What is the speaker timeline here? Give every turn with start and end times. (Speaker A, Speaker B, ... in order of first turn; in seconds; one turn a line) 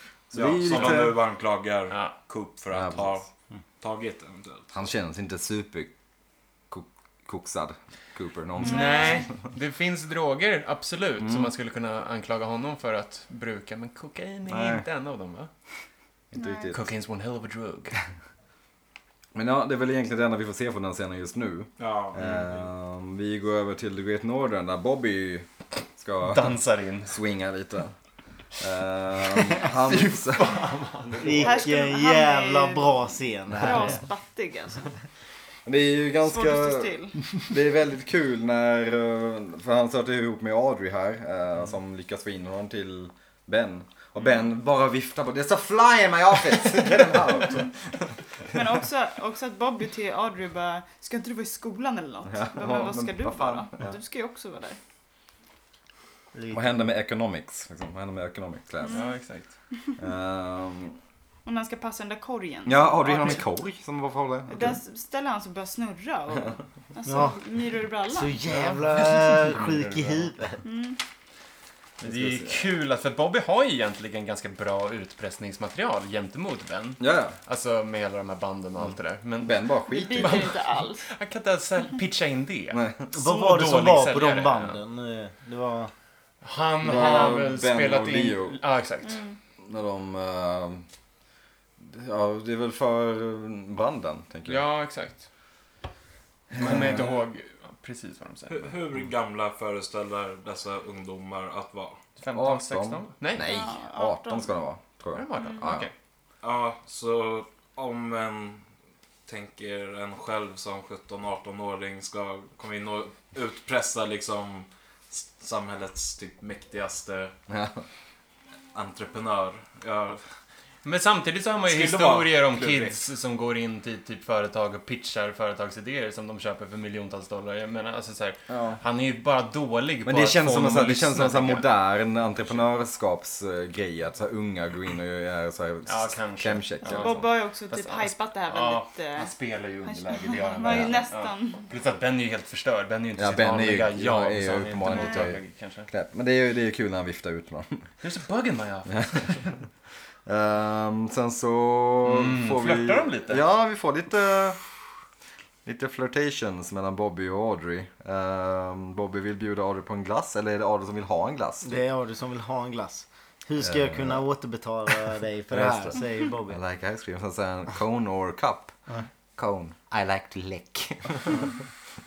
Speaker A: 0.3-1.2
Speaker B: 0.3-3.3
Speaker C: 0.6-1.0
Speaker C: 1.9-2.1
Speaker A: 2.7-3.1
Speaker B: 3.8-4.7
Speaker A: 4.7-5.9
Speaker A: 6.7-9.3
Speaker C: 8.6-15.5
Speaker D: 8.6-9.3
Speaker A: 11.2-11.5
Speaker A: 14.5-14.8
Speaker A: 16.3-16.9
Speaker D: 16.3-16.7
Speaker C: 16.7-18.0
Speaker A: 19.4-27.9
Speaker B: 21.8-22.7
Speaker C: 26.2-27.2
Speaker A: 28.6-30.5
Speaker C: 29.7-31.6
Speaker E: 31.2-34.0
Speaker D: 31.3-34.9
Speaker A: 35.7-48.6
Speaker D: 36.2-37.2
Speaker D: 48.5-54.8
Speaker A: 52.3-54.0
Speaker E: 56.3-56.7
Speaker A: 56.5-59.0
Speaker D: 58.8-59.1
Speaker C: 58.9-59.5
Speaker A: 60.0-61.0
Speaker D: 61.5-63.4
Speaker A: 62.7-64.8
Speaker D: 64.5-68.4
Speaker E: 67.1-67.4
Speaker E: 68.1-70.6
Speaker C: 68.5-70.3
Speaker D: 70.6-71.0
Speaker A: 72.0-72.7
Speaker C: 72.0-84.8
Speaker A: 77.0-77.4
Speaker A: 79.4-80.5
Speaker D: 79.9-81.0
Speaker A: 82.7-83.1
Speaker E: 83.1-85.9
Speaker C: 86.4-89.2
Speaker A: 86.8-88.6
Speaker D: 89.0-89.4
Speaker A: 89.6-90.9
Speaker A: 91.8-94.6
Speaker C: 94.5-95.3
Speaker A: 96.5-97.0
Speaker C: 96.5-98.8
Speaker B: 98.5-102.0
Speaker C: 102.2-103.6
Speaker A: 102.3-105.9
Speaker D: 103.4-104.5
Speaker C: 105.1-105.9
Speaker D: 105.4-105.7
Speaker B: 106.4-108.6
Speaker B: 109.3-117.3
Speaker A: 117.5-117.8
Speaker B: 118.7-120.2
Speaker C: 120.8-131.7
Speaker B: 121.7-123.0
Speaker A: 128.5-128.8
Speaker A: 130.1-137.3
Speaker C: 135.9-145.9
Speaker D: 136.8-141.7
Speaker A: 140.6-141.0
Speaker A: 143.2-147.9
Speaker D: 144.9-145.3
Speaker C: 148.0-149.5
Speaker A: 148.9-149.3
Speaker A: 150.3-154.6
Speaker C: 152.0-153.4
Speaker A: 155.7-161.8
Speaker E: 161.6-166.6
Speaker A: 163.6-164.2
Speaker A: 165.5-168.8
Speaker A: 169.4-171.5